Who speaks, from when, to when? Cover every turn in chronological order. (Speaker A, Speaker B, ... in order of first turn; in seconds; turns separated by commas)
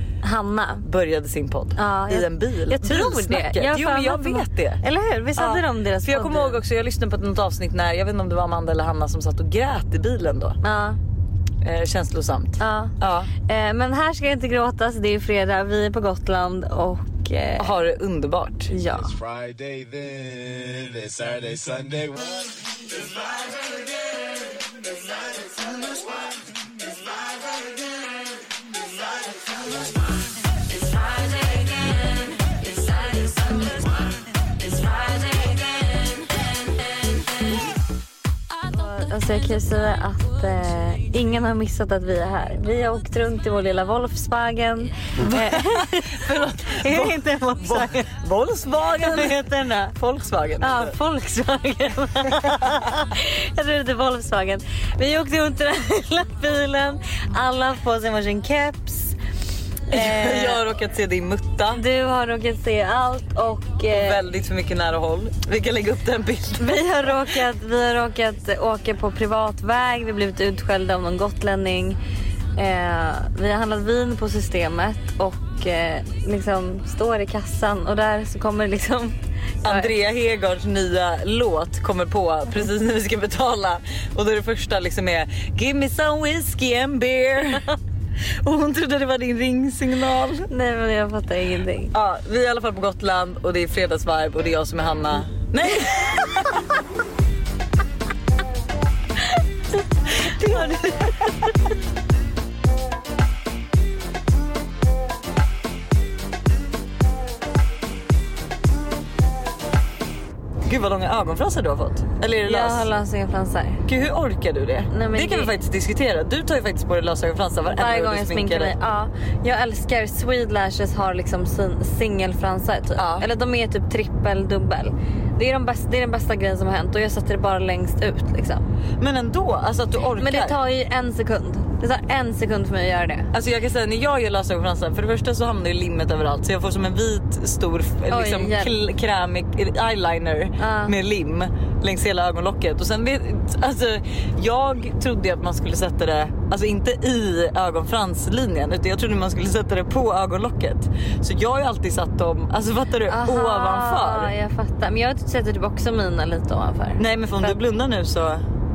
Speaker A: 0.2-0.8, Speaker B: 0.8-4.8, Speaker A: 1.8-6.6, Speaker B: 5.4-10.6, Speaker A: 10.6-11.0, Speaker B: 11.6-13.3, Speaker A: 12.6-12.9, Speaker A: 13.5-17.9, Speaker B: 17.6-18.7, Speaker A: 18.7-19.2, Speaker C: 19.2-22.3, Speaker A: 35.0-35.5, Speaker A: 38.7-48.1, Speaker B: 45.2-50.9, Speaker A: 48.9-49.9, Speaker A: 50.6-59.2, Speaker A: 59.9-60.6, Speaker B: 59.9-61.8, Speaker A: 61.7-64.2, Speaker B: 63.9-67.2, Speaker A: 66.6-72.0, Speaker A: 72.6-79.9, Speaker B: 79.6-87.7, Speaker B: 88.2-90.5, Speaker A: 90.5-91.9, Speaker B: 91.9-96.4, Speaker A: 100.1-101.7, Speaker B: 110.7-112.9, Speaker A: 112.4-113.8, Speaker B: 113.9-118.7, Speaker A: 114.9-115.5, Speaker A: 117.7-128.7, Speaker B: 123.0-123.3, Speaker B: 129.0-130.6, Speaker A: 130.2-133.3, Speaker B: 133.3-154.3, Speaker A: 138.1-138.7, Speaker A: 140.6-140.9, Speaker A: 153.1-157.6, Speaker B: 157.0-158.4